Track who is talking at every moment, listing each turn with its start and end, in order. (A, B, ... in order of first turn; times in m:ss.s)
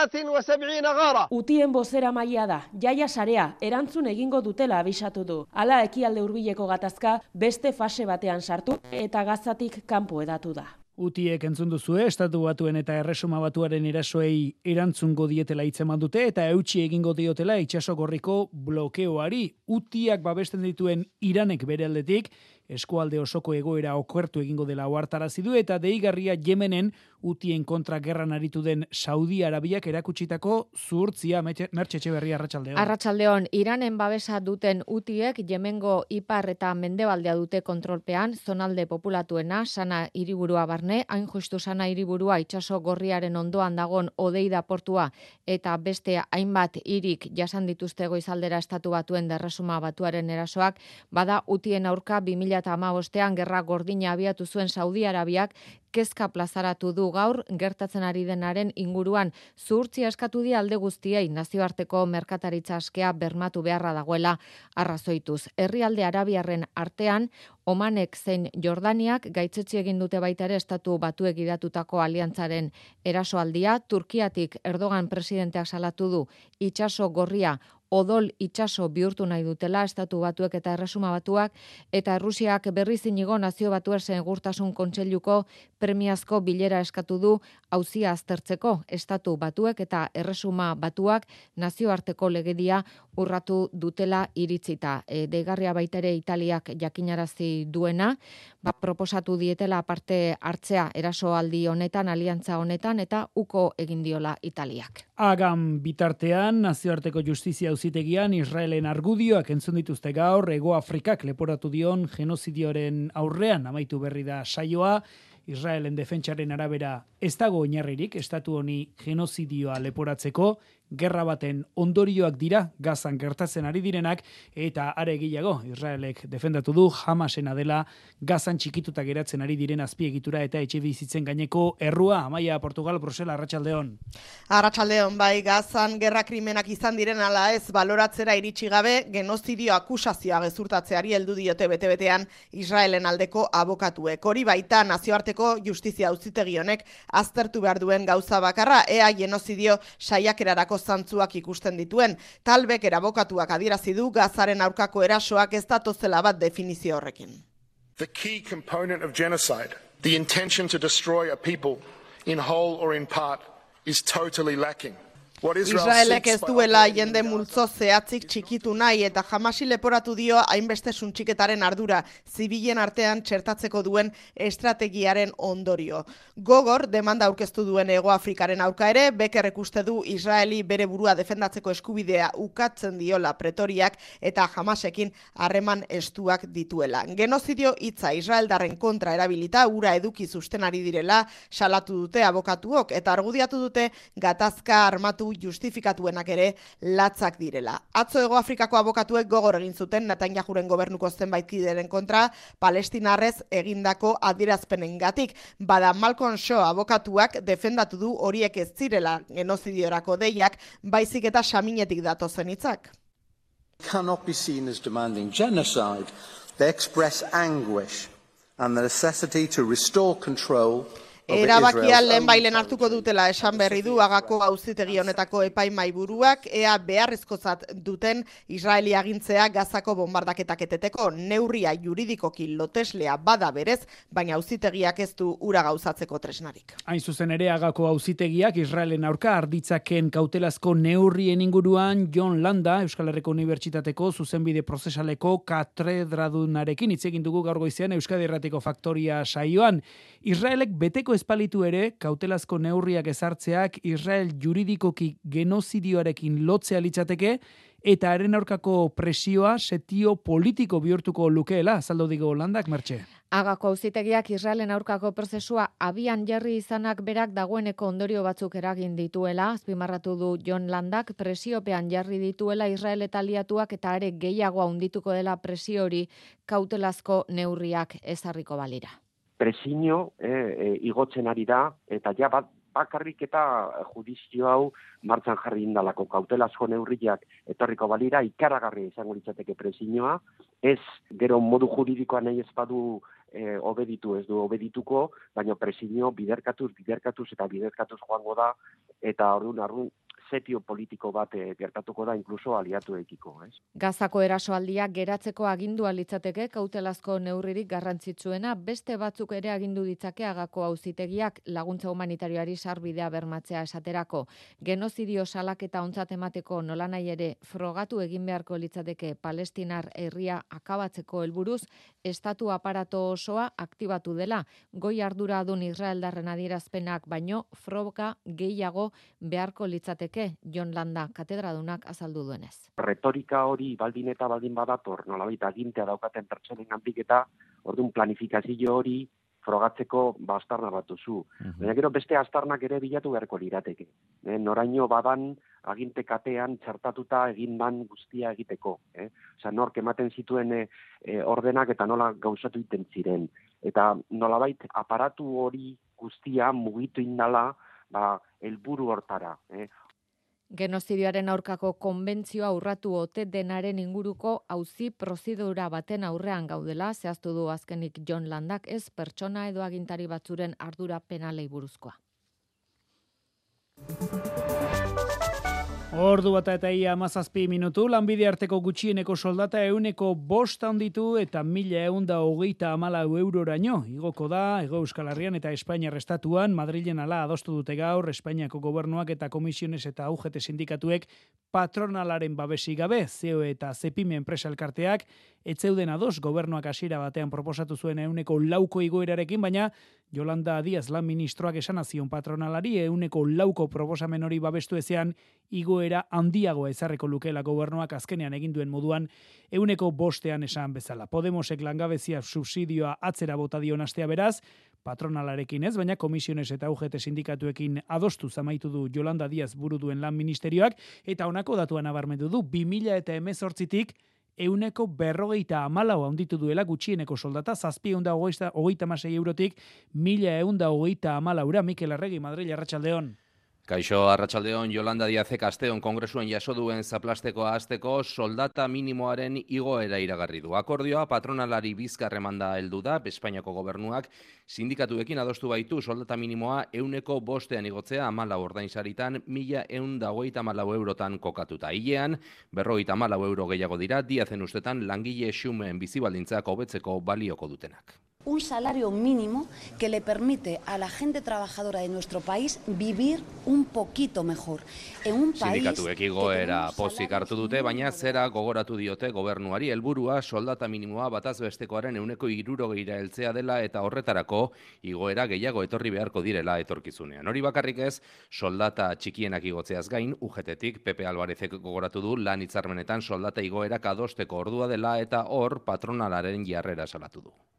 0:01.3-0:10.7 A
0:11.0-0:32.9 B
0:32.8-1:45.0 C
1:45.2-2:14.0 B
2:14.5-2:37.4 D
2:38.0-2:47.5 E
2:45.6-3:32.9 D
3:33.8-3:44.0 F
3:41.3-3:56.8 D
3:56.9-4:23.0 B
4:23.3-4:39.0 C
4:39.4-5:03.6 G
5:03.8-5:32.7 C
5:32.8-5:59.7 G
6:00.5-6:12.0 C
6:15.9-7:13.2 B
7:13.7-7:38.0 H
7:38.2-7:48.3 I
7:45.4-8:07.4 H